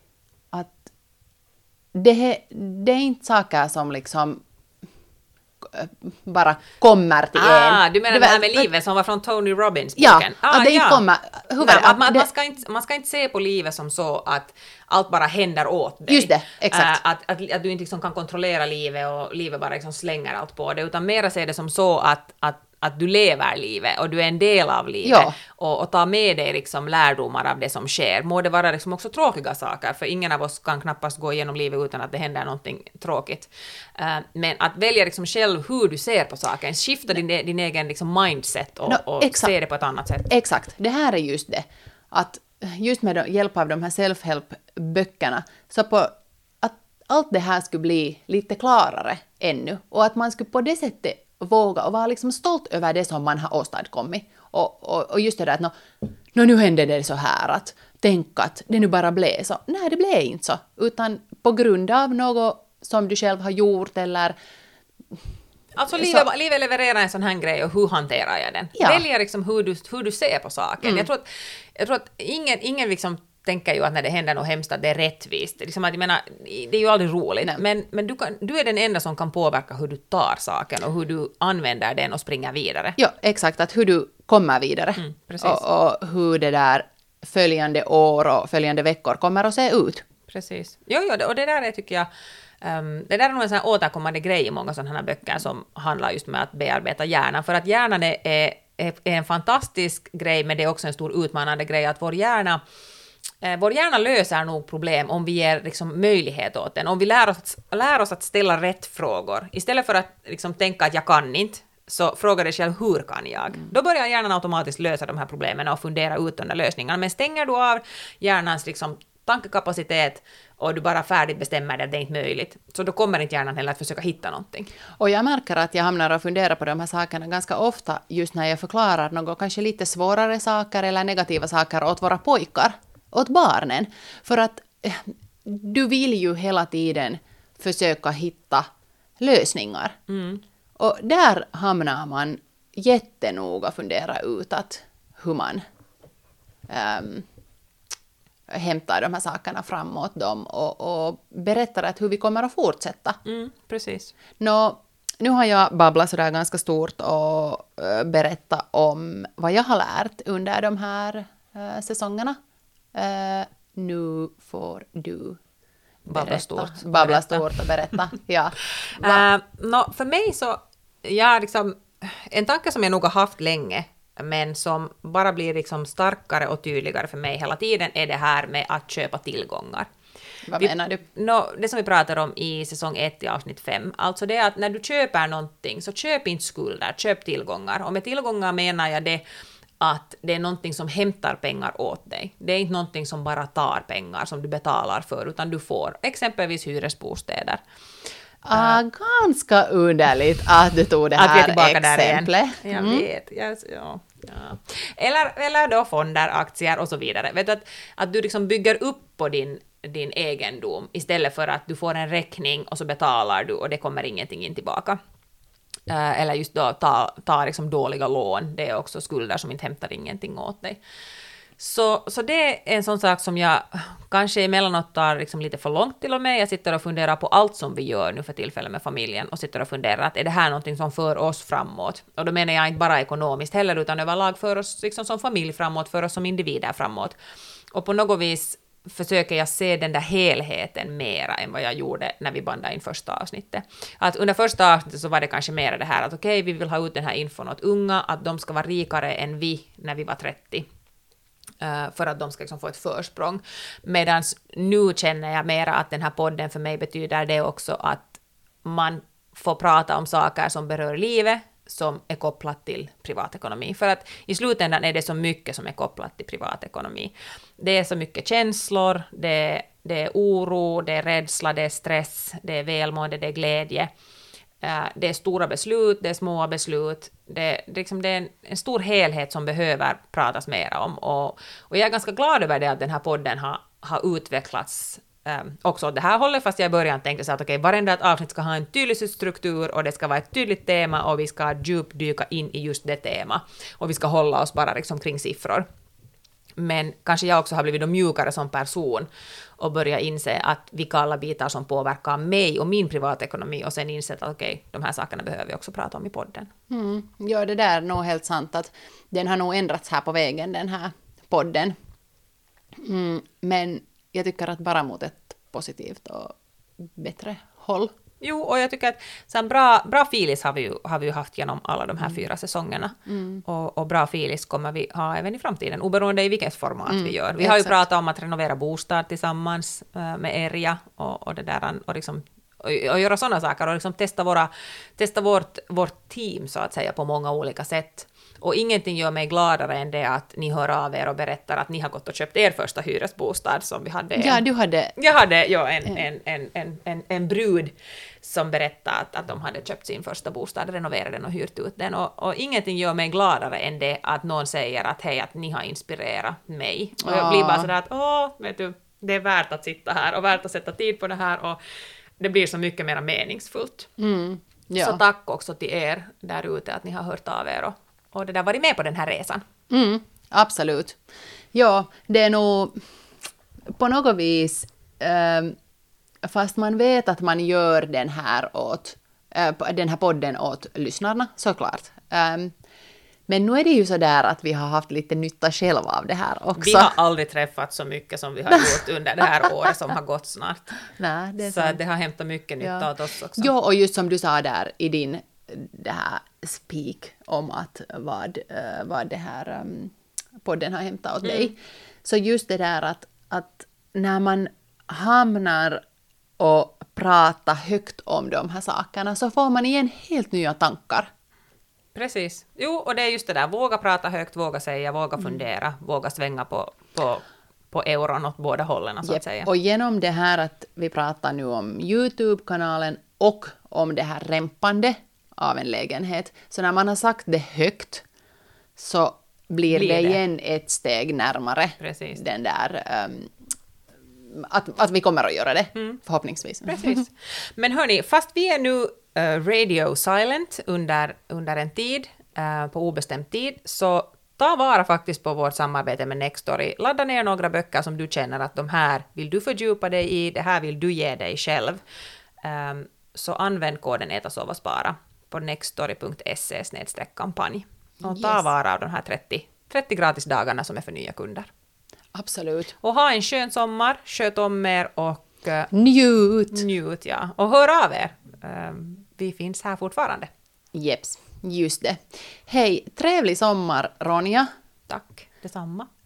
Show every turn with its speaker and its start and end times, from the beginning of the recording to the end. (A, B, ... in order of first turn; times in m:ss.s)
0:00.5-0:00.9 A
0:01.9-0:04.4 A
0:05.6-0:08.7 A
0:07.3-0:11.0 B
0:10.0-0:12.3 A
0:11.6-0:40.3 B
0:16.1-0:17.0 A
0:25.0-0:25.4 A
0:38.9-0:39.5 A
0:40.3-0:55.7 A
0:56.3-1:04.3 A
1:05.8-1:23.0 B
1:05.9-1:06.2 A
1:08.8-1:09.0 A
1:10.8-1:11.1 A
1:23.0-1:30.0 A
1:25.0-1:25.6 B
1:30.3-1:32.1 B
1:32.6-1:42.6 B
1:43.4-2:04.7 B
2:05.0-2:18.7 A
2:19.2-2:20.0 A
2:20.1-2:20.4 B
2:20.8-2:25.6 A
2:26.7-2:27.3 A
2:28.5-2:33.2 A
2:33.2-2:34.1 B
2:34.4-2:42.4 A
2:42.9-2:45.4 A
2:46.0-2:49.2 A
2:46.1-2:47.9 B
2:49.0-2:59.9 B
3:00.5-3:01.0 A
3:00.6-3:09.2 B
3:09.8-3:17.6 B
3:18.4-3:23.0 A
3:18.5-3:18.8 B
3:21.2-3:35.0 B
3:35.9-3:40.8 B
3:41.6-3:57.2 B
3:57.7-4:10.6 B
4:11.6-4:33.9 B
4:34.6-4:55.6 B
4:56.6-4:59.1 B
4:59.6-5:06.5 B
5:06.7-5:11.7 A
5:12.8-5:17.9 A
5:18.2-5:44.4 B
5:23.1-5:23.4 A
5:26.9-5:27.8 A
5:44.2-5:44.9 A
5:45.0-6:01.6 B
5:57.0-5:57.7 A
6:02.2-6:03.9 B
6:04.0-6:05.0 A
6:04.8-6:09.4 B
6:09.7-6:11.0 A
6:11.5-6:12.8 A
6:13.8-6:15.6 A
6:16.2-6:22.5 A
6:23.3-6:26.9 A
6:26.6-6:30.8 B
6:28.5-6:28.8 A
6:31.0-6:31.8 A
6:31.4-6:33.5 B
6:32.6-6:39.9 A
6:40.4-6:45.8 A
6:41.2-6:41.5 B
6:46.4-6:51.1 A
6:51.9-6:59.5 B
6:59.0-7:08.0 A
7:08.8-7:13.3 A
7:09.7-7:10.2 B
7:11.8-7:12.2 B
7:14.3-7:17.0 A
7:16.6-7:31.8 B
7:32.4-7:41.5 B
7:38.0-7:38.4 A
7:42.1-7:42.7 A
7:42.8-7:45.7 B
7:45.7-7:46.6 A
7:46.5-7:50.3 B
7:50.7-7:54.5 A
7:54.9-7:55.9 B